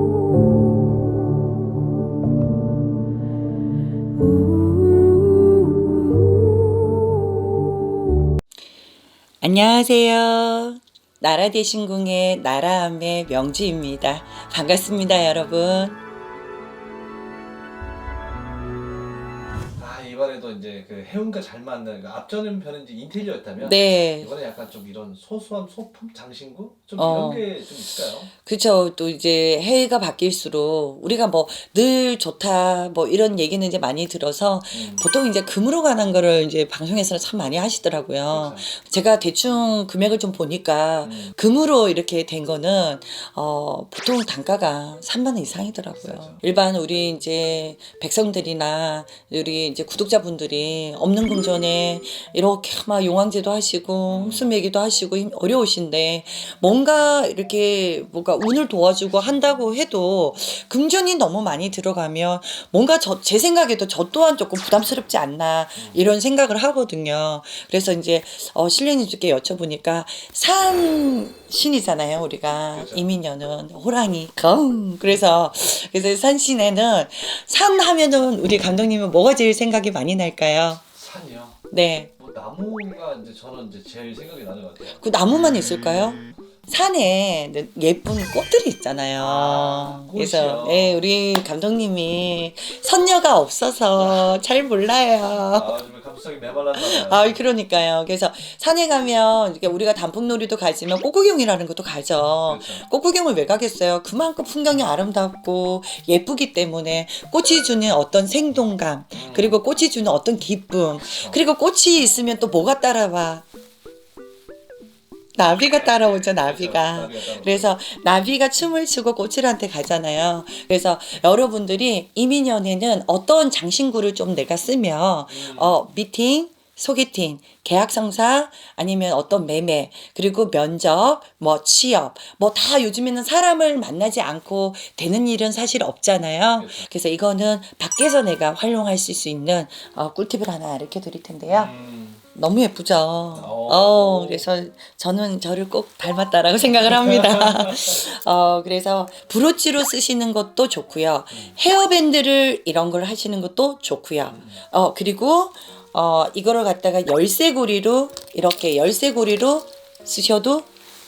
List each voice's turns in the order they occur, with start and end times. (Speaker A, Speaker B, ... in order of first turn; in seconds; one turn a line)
Speaker A: 9.4-16.0
Speaker B: 19.8-28.3
Speaker A: 23.6-24.3
Speaker A: 27.0-27.6
Speaker A: 28.4-80.8
Speaker B: 34.7-35.1
Speaker B: 38.3-38.7
Speaker B: 41.0-41.3
Speaker B: 46.0-46.4
Speaker B: 54.1-54.5
Speaker B: 65.8-66.0
Speaker B: 72.7-73.1
Speaker B: 80.9-81.6
Speaker A: 81.7-82.1
Speaker B: 82.2-85.0
Speaker A: 85.0-95.7
Speaker B: 89.2-91.0
Speaker B: 93.9-94.4
Speaker B: 95.4-97.4
Speaker A: 96.7-113.4
Speaker B: 102.5-102.8
Speaker B: 109.1-109.6
Speaker B: 111.0-111.4
Speaker A: 115.3-141.7
Speaker B: 115.5-117.7
Speaker B: 125.3-125.8
Speaker B: 136.6-136.9
Speaker B: 141.5-142.2
Speaker A: 142.3-160.7
Speaker B: 143.3-144.5
Speaker B: 147.0-147.8
Speaker B: 154.3-154.6